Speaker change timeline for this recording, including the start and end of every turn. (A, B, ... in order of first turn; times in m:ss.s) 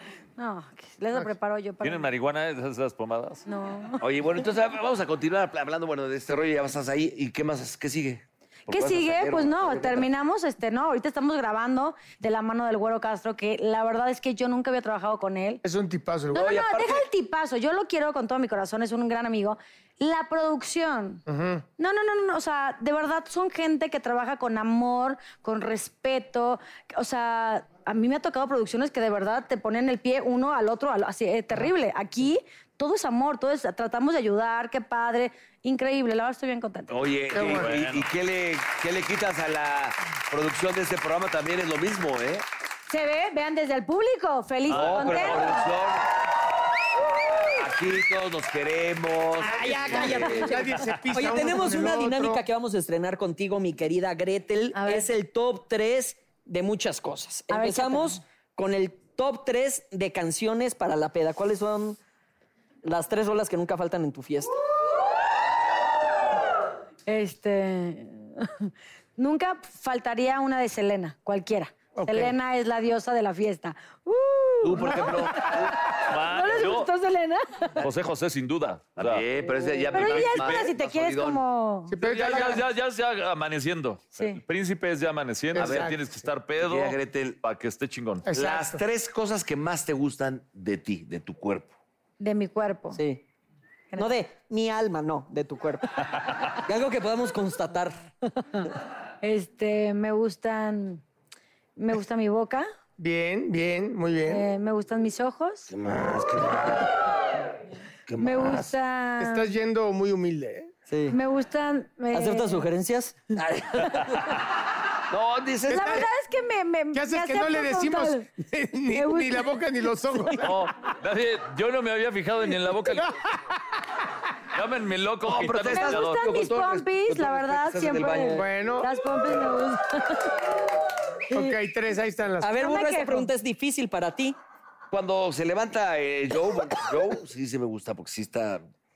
0:00.4-0:02.1 A
0:01.8-0:03.4 B
0:03.4-0:04.0 A
0:04.0-0:10.1 C
0:08.7-0:15.6 A
0:15.6-0:16.8 D
0:16.3-0:21.2 A
0:16.4-0:16.9 C
0:21.3-0:21.6 D
0:21.8-0:37.1 A
0:36.9-0:42.4 C
0:37.3-0:37.7 D
0:37.4-0:38.1 B
0:42.9-0:45.7 A
0:44.7-0:45.6 B
0:44.7-0:46.0 C
0:47.5-0:50.8 C
0:49.4-1:02.0 E
0:49.9-0:52.4 D
0:54.7-0:55.1 A
0:57.5-0:58.2 A
1:02.8-1:04.5 E
1:07.1-1:17.7 A
1:12.0-1:12.3 D
1:14.6-1:15.7 C
1:16.0-1:16.9 B
1:17.8-1:19.2 B
1:19.0-1:21.4 C
1:19.9-1:22.0 A
1:19.9-1:20.7 B
1:21.9-1:22.6 D
1:22.0-1:28.3 B
1:25.5-1:26.0 D
1:25.5-1:25.9 C
1:26.6-1:27.4 C
1:28.2-1:28.8 D
1:28.3-1:31.7 C
1:32.2-1:33.0 A
1:32.9-1:33.2 E
1:33.9-1:34.2 A
1:34.0-1:36.0 E
1:36.6-1:38.1 E
1:39.2-1:41.0 A
1:41.8-1:42.6 A
1:43.0-1:44.4 D
1:44.3-1:45.7 A
1:45.7-1:47.0 C
1:48.1-1:48.7 C
1:48.2-1:49.5 A
1:49.2-1:50.7 D
1:50.9-1:51.2 E
1:51.1-1:52.6 A
1:52.1-1:53.3 E
1:53.4-1:54.4 C
1:55.1-1:56.0 C
1:55.7-1:58.3 A
1:55.7-1:56.0 D
1:56.9-2:00.6 D
1:58.9-1:59.5 A
2:00.4-2:03.1 B
2:04.5-2:06.2 B
2:05.2-2:08.4 C
2:05.7-2:10.3 A
2:08.0-2:08.4 E
2:08.4-2:08.9 D
2:11.3-2:11.5 A
2:11.3-2:12.6 D
2:12.4-2:14.4 E
2:12.5-2:13.3 A
2:14.9-2:18.7 C